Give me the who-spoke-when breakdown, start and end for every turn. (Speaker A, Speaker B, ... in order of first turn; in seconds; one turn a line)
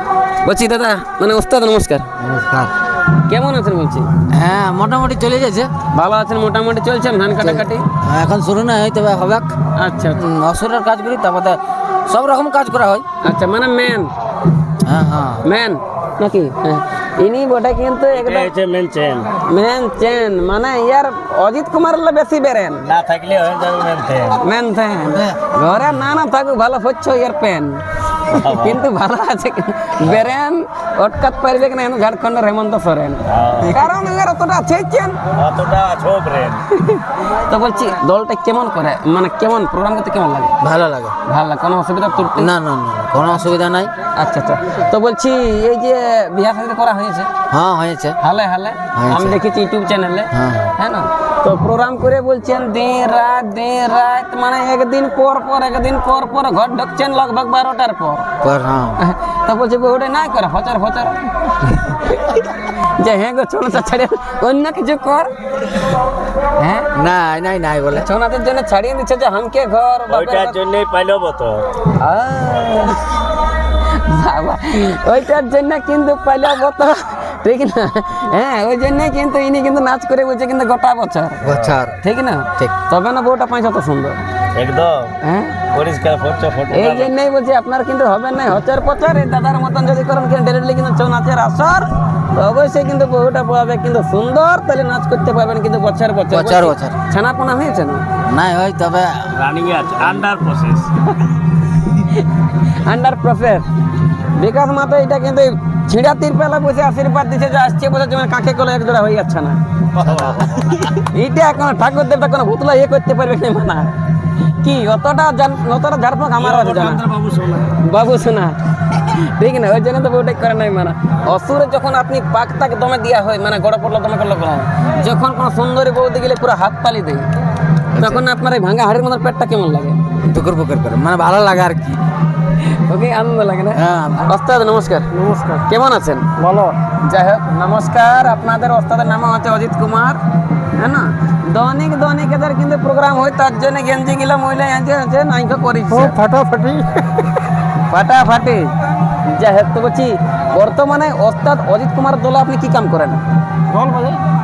Speaker A: 0.4-2.1
Speaker B: 2.2-2.7
Speaker A: 3.3-4.1
Speaker B: 4.3-5.7
Speaker A: 5.9-7.9
Speaker B: 7.4-9.5
Speaker A: 9.8-10.2
Speaker B: 10.2-13.1
Speaker A: 13.2-14.1
Speaker B: 14.8-15.4
Speaker A: 15.4-18.5
Speaker C: 18.1-19.3
Speaker A: 19.4-22.9
Speaker C: 22.8-24.4
Speaker A: 24.4-27.8
Speaker C: 28.3-28.8
Speaker A: 28.5-35.2
Speaker C: 33.3-33.8
Speaker C: 35.4-36.6
Speaker A: 36.7-40.5
Speaker B: 40.6-41.2
Speaker A: 41.3-42.5
Speaker B: 42.3-43.9
Speaker A: 44.2-47.3
Speaker B: 47.5-48.2
Speaker A: 48.2-58.3
Speaker B: 49.0-49.4
Speaker B: 50.3-50.7
Speaker B: 58.4-59.0
Speaker A: 59.0-65.3
Speaker A: 66.6-66.9
Speaker B: 67.0-68.1
Speaker A: 67.9-70.6
Speaker C: 70.1-71.7
Speaker A: 71.9-73.2
Speaker A: 73.8-81.4
Speaker C: 81.4-81.8
Speaker B: 81.4-82.0
Speaker A: 82.0-84.2
Speaker C: 84.5-85.1
Speaker A: 85.2-85.6
Speaker C: 85.7-87.1
Speaker A: 86.7-98.1
Speaker B: 96.3-97.0
Speaker B: 98.2-99.3
Speaker C: 99.3-101.0
Speaker A: 102.0-103.7
Speaker A: 104.3-109.6
Speaker C: 110.0-110.9
Speaker A: 110.2-113.9
Speaker A: 114.6-117.0
Speaker C: 116.4-117.7
Speaker A: 117.8-127.3
Speaker B: 127.9-128.2
Speaker A: 128.0-130.1
Speaker B: 130.2-132.0
Speaker A: 132.6-136.3
Speaker B: 133.8-134.3
Speaker D: 135.2-135.6
Speaker D: 136.4-136.8
Speaker A: 136.9-140.2
Speaker A: 140.8-146.2
Speaker D: 146.1-147.0
Speaker A: 147.9-148.7
Speaker A: 149.3-153.2
Speaker D: 153.7-154.2